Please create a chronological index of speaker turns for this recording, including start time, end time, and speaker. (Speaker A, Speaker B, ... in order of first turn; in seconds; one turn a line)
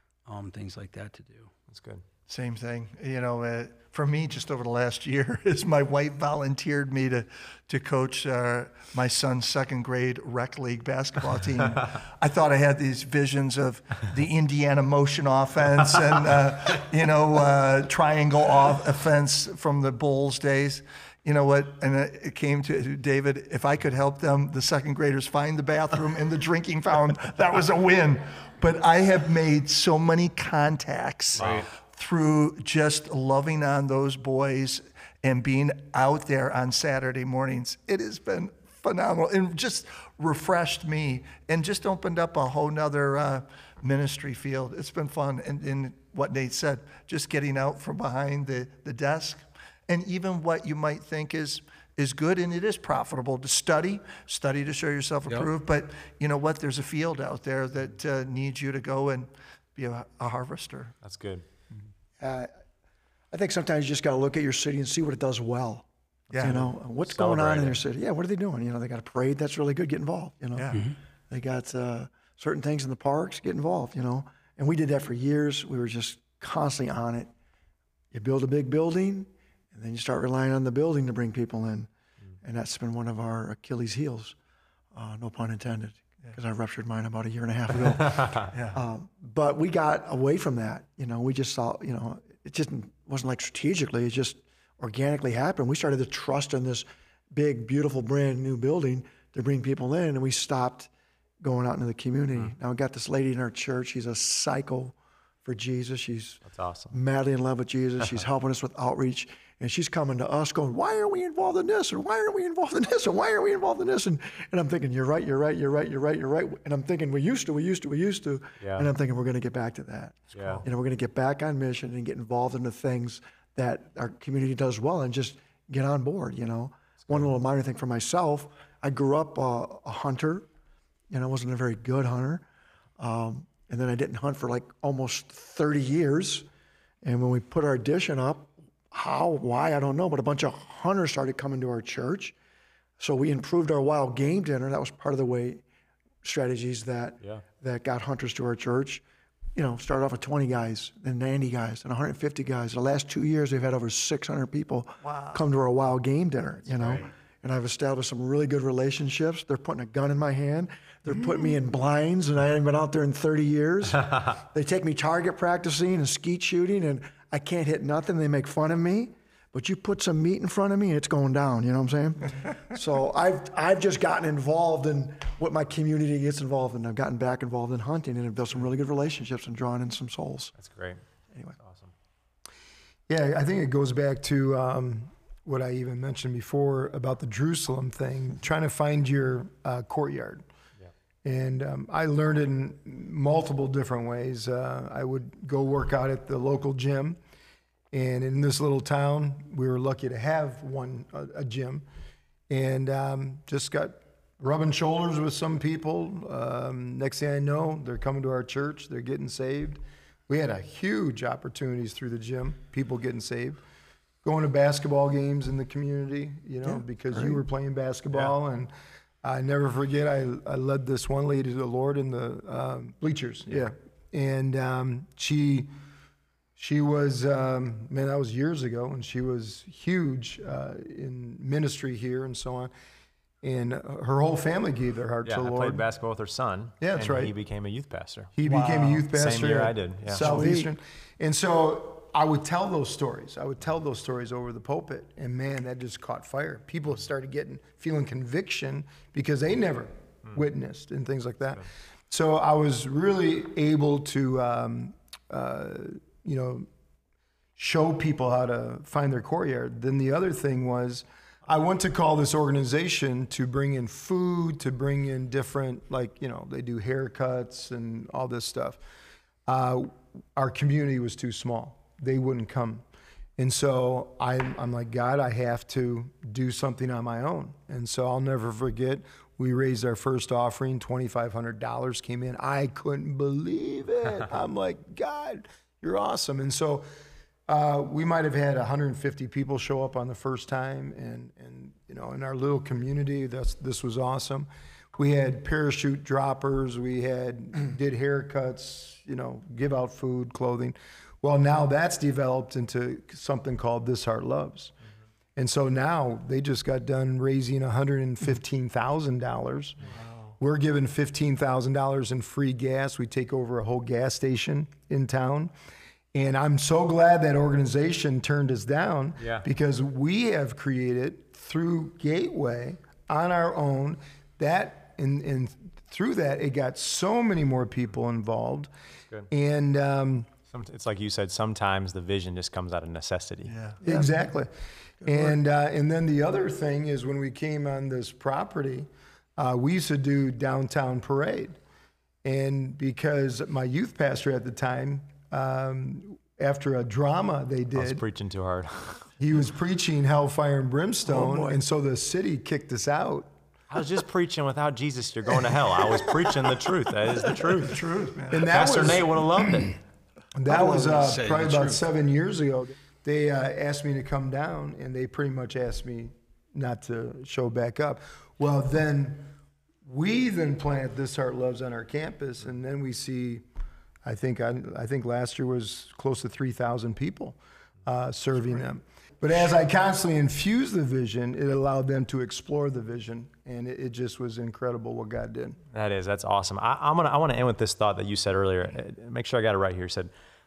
Speaker A: 0.3-1.5
Speaker B: 1.7-2.0
Speaker C: 2.3-61.0
Speaker A: 31.4-31.7
Speaker B: 61.0-61.5
Speaker D: 62.2-62.5
Speaker D: 63.3-65.9
Speaker C: 66.3-66.7
Speaker B: 66.4-67.8
Speaker D: 66.4-77.3
Speaker C: 70.5-70.9
Speaker D: 78.1-81.9
Speaker D: 82.4-84.3
Speaker D: 84.9-100.9
Speaker B: 88.1-88.5
Speaker C: 88.5-88.8
Speaker D: 101.4-130.5
Speaker B: 106.5-107.0
Speaker B: 118.6-118.9
Speaker B: 120.3-120.6
Speaker D: 131.1-132.4
Speaker D: 133.0-136.5
Speaker D: 137.0-142.3
Speaker D: 143.0-145.6
Speaker D: 146.2-149.0
Speaker D: 149.6-180.5
Speaker C: 155.0-155.4
Speaker A: 156.8-157.1
Speaker B: 180.6-181.0
Speaker B: 181.6-181.9
Speaker E: 183.1-190.4
Speaker E: 191.2-197.2
Speaker E: 197.9-201.8
Speaker E: 202.5-213.6
Speaker E: 214.2-218.7
Speaker D: 216.7-217.4
Speaker E: 219.2-225.7
Speaker E: 226.6-232.7
Speaker E: 233.4-235.8
Speaker B: 235.2-238.3
Speaker E: 236.8-237.3
Speaker E: 238.4-256.7
Speaker C: 238.4-239.1
Speaker B: 239.1-240.5
Speaker D: 240.1-240.7
Speaker E: 257.6-268.8
Speaker E: 269.5-272.8
Speaker E: 273.4-286.9
Speaker E: 287.5-304.7
Speaker E: 305.4-309.8
Speaker C: 310.1-310.3
Speaker E: 310.4-315.5
Speaker E: 316.1-328.7
Speaker B: 319.2-319.4
Speaker E: 329.3-330.3
Speaker B: 330.5-333.5
Speaker C: 333.5-333.8
Speaker D: 333.8-334.1
Speaker E: 333.9-334.5
Speaker E: 335.0-341.6
Speaker D: 335.1-335.4
Speaker E: 342.2-348.0
Speaker B: 347.8-349.1
Speaker E: 349.2-353.3
Speaker D: 351.1-351.6
Speaker B: 353.7-357.9
Speaker C: 357.7-358.5
Speaker E: 358.3-359.7
Speaker B: 358.4-359.8
Speaker E: 360.4-373.4
Speaker D: 360.5-361.1
Speaker A: 360.5-361.8
Speaker E: 374.0-385.6
Speaker B: 385.7-390.1